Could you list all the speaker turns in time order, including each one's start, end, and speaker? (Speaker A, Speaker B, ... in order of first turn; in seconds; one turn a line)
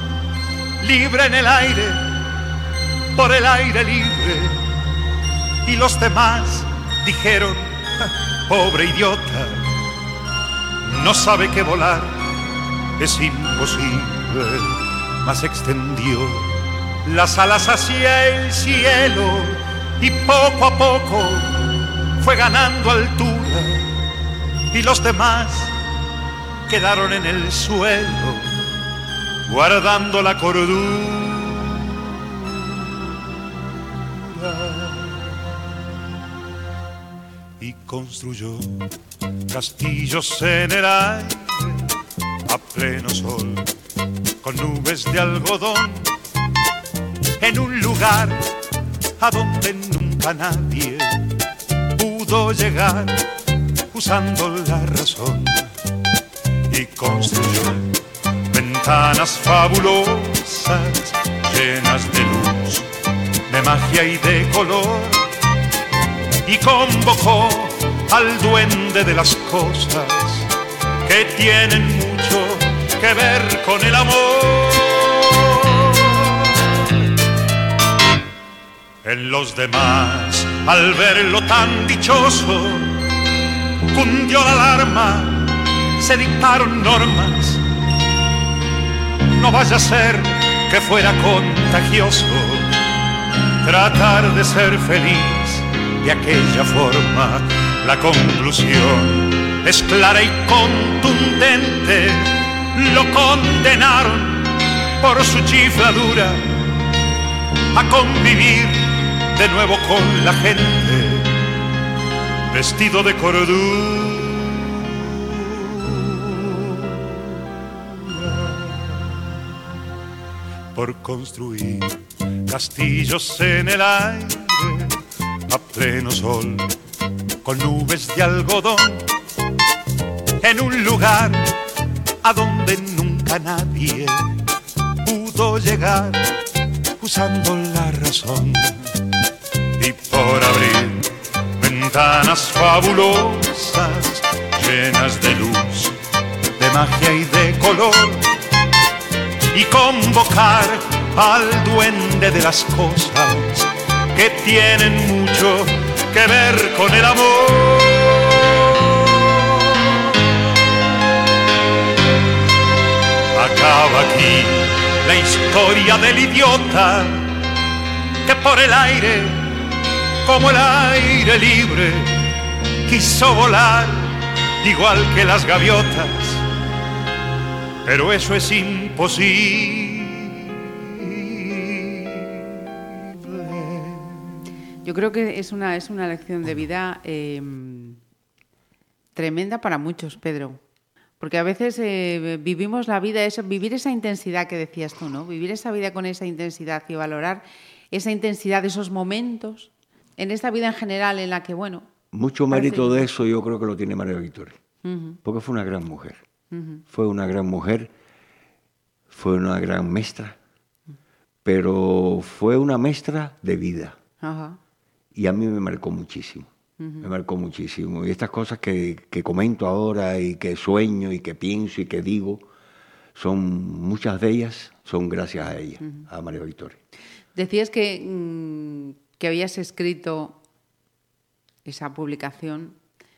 Speaker A: 0.8-2.1
Speaker A: 3.1-4.6
Speaker A: 5.7-9.7
Speaker A: 10.9-12.2
Speaker A: 13.0-16.5
Speaker A: 17.0-23.9
Speaker A: 24.7-25.7
Speaker A: 26.7-28.6
Speaker A: 29.5-31.8
Speaker A: 34.1-35.3
Speaker A: 37.6-38.9
Speaker A: 39.5-41.8
Speaker A: 42.5-43.7
Speaker A: 44.4-46.1
Speaker A: 47.4-48.5
Speaker A: 49.2-51.3
Speaker A: 52.0-53.3
Speaker A: 53.9-55.7
Speaker A: 56.7-58.0
Speaker A: 58.5-62.9
Speaker A: 63.5-65.3
Speaker A: 66.5-70.5
Speaker A: 71.0-76.7
Speaker A: 79.0-83.0
Speaker A: 83.9-87.6
Speaker A: 89.4-92.8
Speaker A: 93.6-106.5
Speaker A: 107.7-111.3
Speaker A: 112.5-114.7
Speaker A: 115.3-117.0
Speaker A: 118.0-119.1
Speaker A: 120.7-125.0
Speaker A: 125.5-126.7
Speaker A: 127.4-129.1
Speaker A: 130.4-131.5
Speaker A: 132.2-134.4
Speaker A: 135.0-136.3
Speaker A: 137.0-138.9
Speaker A: 139.8-146.0
Speaker A: 146.6-148.3
Speaker A: 149.5-159.5
Speaker A: 163.3-167.3
Speaker A: 168.2-169.5
Speaker A: 170.2-172.2
Speaker A: 172.9-176.4
Speaker A: 177.9-180.5
Speaker A: 181.0-182.4
Speaker A: 183.2-184.2
Speaker B: 184.8-188.0
Speaker B: 189.2-190.6
Speaker B: 191.2-201.9
Speaker C: 202.1-204.6
Speaker B: 202.5-203.1
Speaker B: 204.8-205.2
Speaker C: 205.2-206.2
Speaker B: 206.5-206.8
Speaker C: 206.9-207.9
Speaker C: 209.1-210.4
Speaker C: 211.4-214.0
Speaker B: 214.2-214.6
Speaker C: 215.2-216.5
Speaker B: 216.8-217.1
Speaker C: 217.0-222.5
Speaker C: 223.2-226.8
Speaker B: 227.3-230.4
Speaker B: 231.7-232.8